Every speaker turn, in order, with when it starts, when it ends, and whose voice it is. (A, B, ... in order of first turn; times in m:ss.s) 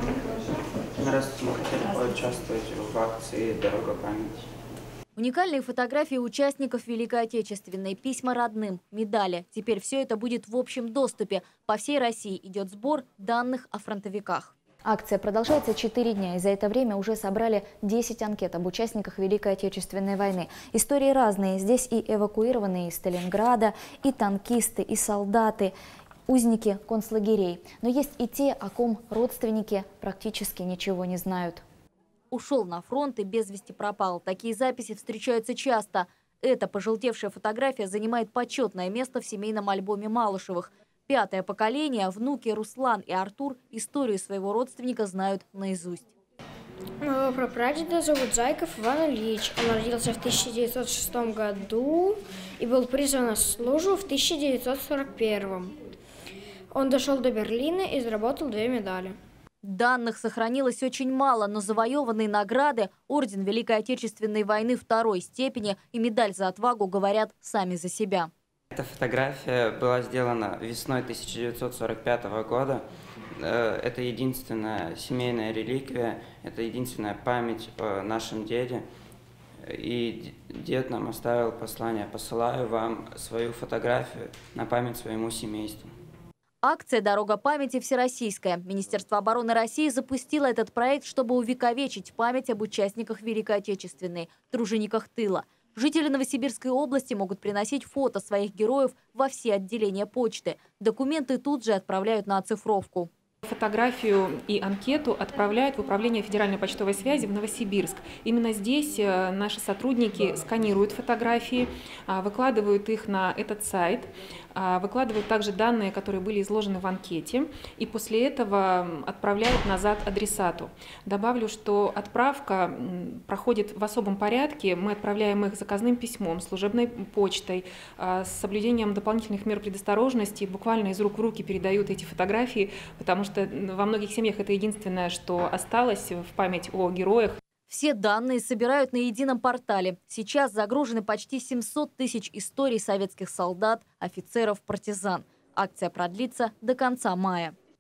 0:01.0-0:04.5 A
0:05.2-0:14.5 B
0:14.8-0:25.7 C
0:26.3-0:31.6 C
0:32.3-0:46.1 B
0:47.0-0:55.7 D
0:56.7-0:59.2 D
0:59.6-1:08.3 B
1:08.7-1:12.8 A
1:13.4-1:18.8 A
1:19.7-1:25.9 A
1:26.6-1:43.1 B
1:43.4-2:17.4 E
2:17.7-2:27.6 B